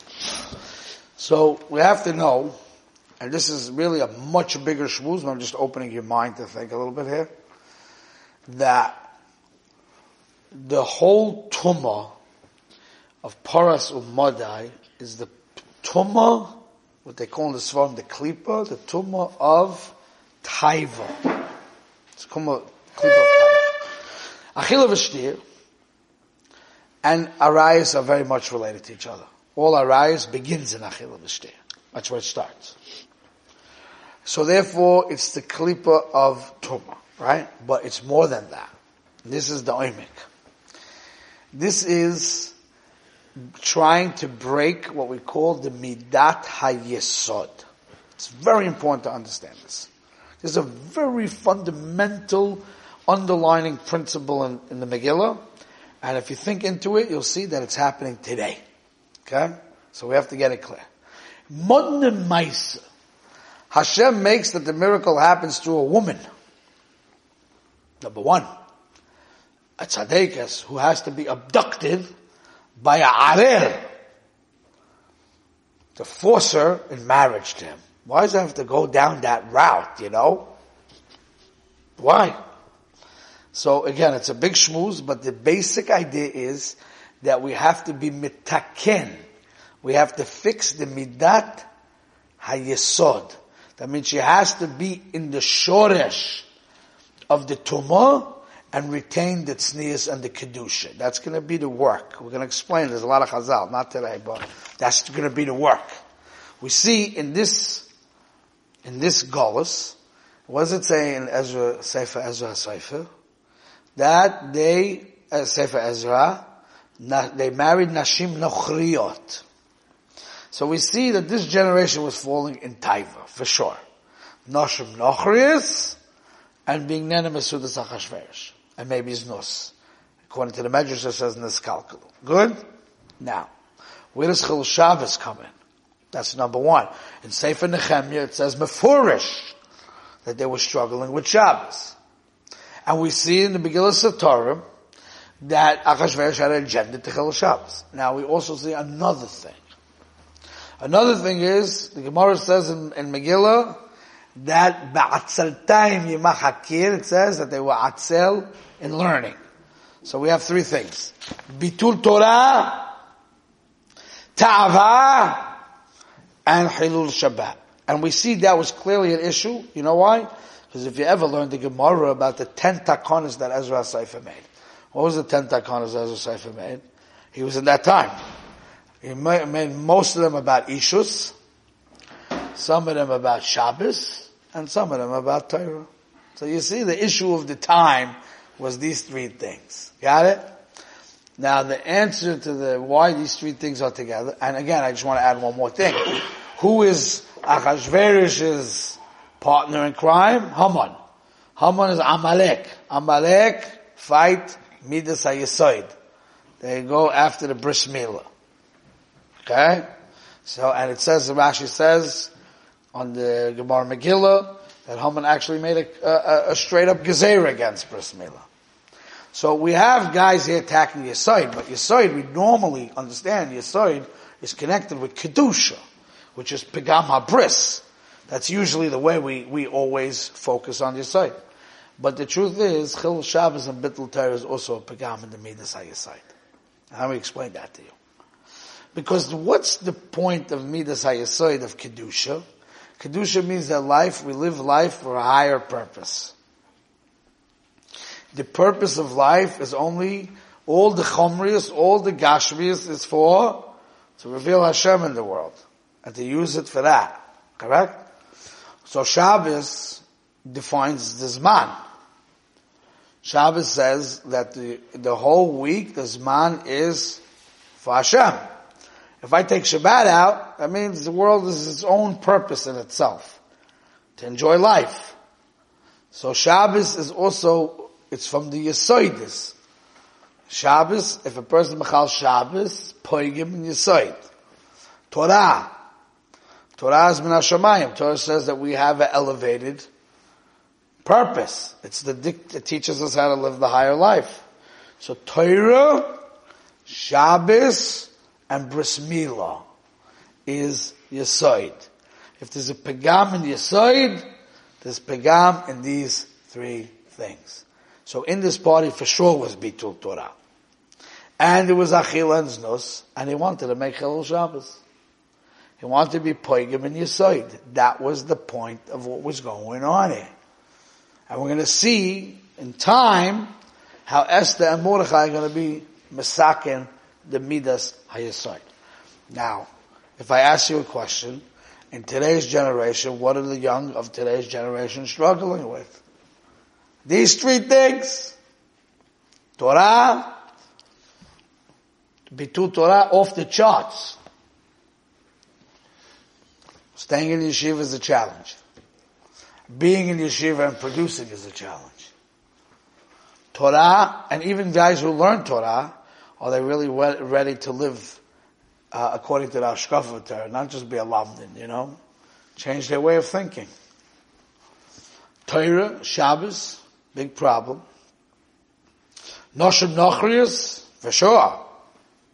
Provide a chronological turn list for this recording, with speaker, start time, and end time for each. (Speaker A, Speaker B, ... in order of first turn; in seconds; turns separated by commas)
Speaker A: 1.2-2.5, Speaker A: 3.2-7.3, Speaker A: 8.5-9.0, Speaker A: 10.5-12.1, Speaker A: 13.2-21.2, Speaker A: 22.2-23.7, Speaker A: 24.5-25.4, Speaker A: 27.0-32.7, Speaker A: 34.2-38.7, Speaker A: 39.2-40.1, Speaker A: 41.5-42.5, Speaker A: 43.6-47.6, Speaker A: 48.2-49.9, Speaker A: 50.4-55.4, Speaker A: 56.0-58.6, Speaker A: 59.2-60.8, Speaker A: 61.5-62.8, Speaker A: 63.7-66.2, Speaker A: 68.0-68.5, Speaker A: 69.8-72.1, Speaker A: 72.8-73.8, Speaker A: 76.0-80.5, Speaker A: 82.0-82.4, Speaker A: 83.5-89.2, Speaker A: 89.8-91.7, Speaker A: 92.4-96.5, Speaker A: 97.3-105.9, Speaker A: 106.6-107.9, Speaker A: 108.8-110.0, Speaker A: 110.5-113.1, Speaker A: 114.0-116.4, Speaker A: 117.0-119.4, Speaker A: 120.5-123.8, Speaker A: 124.5-126.0, Speaker A: 126.7-129.7, Speaker A: 130.3-132.6, Speaker A: 133.2-133.5, Speaker A: 134.1-135.5, Speaker A: 136.1-139.5, Speaker A: 140.2-141.9, Speaker A: 142.9-144.6, Speaker A: 145.4-149.6, Speaker A: 150.8-153.8, Speaker A: 154.3-159.4, Speaker A: 160.0-162.9, Speaker A: 164.3-165.5, Speaker A: 166.4-178.1, Speaker A: 179.0-181.3, Speaker A: 182.5-190.4, Speaker A: 191.4-200.9, Speaker A: 201.6-205.9, Speaker A: 206.6-208.2, Speaker A: 209.4-209.9, Speaker A: 210.4-212.3, Speaker A: 212.9-218.4, Speaker A: 219.3-225.8, Speaker A: 226.3-231.3, Speaker A: 232.0-236.3, Speaker A: 236.9-237.9, Speaker A: 238.9-242.4, Speaker A: 243.0-246.3, Speaker A: 248.3-258.0, Speaker A: 258.8-261.7, Speaker A: 263.2-267.2, Speaker A: 267.8-268.4, Speaker A: 269.2-273.4, Speaker A: 274.2-275.1, Speaker A: 276.1-279.5, Speaker A: 280.5-284.2, Speaker A: 285.1-285.7, Speaker A: 286.8-289.9, Speaker A: 291.0-294.4, Speaker A: 295.0-296.1, Speaker A: 296.9-299.6, Speaker A: 300.4-301.9, Speaker A: 302.4-304.2, Speaker A: 304.8-310.3, Speaker A: 311.4-314.8, Speaker A: 315.8-320.3, Speaker A: 321.3-323.5, Speaker A: 324.1-328.6, Speaker A: 329.3-336.0, Speaker A: 337.0-338.3, Speaker A: 339.6-340.3, Speaker A: 342.3-344.2, Speaker A: 346.9-348.6, Speaker A: 349.7-352.1, Speaker A: 353.5-358.2, Speaker A: 358.9-362.0, Speaker A: 362.6-363.7, Speaker A: 365.4-367.8, Speaker A: 369.5-371.6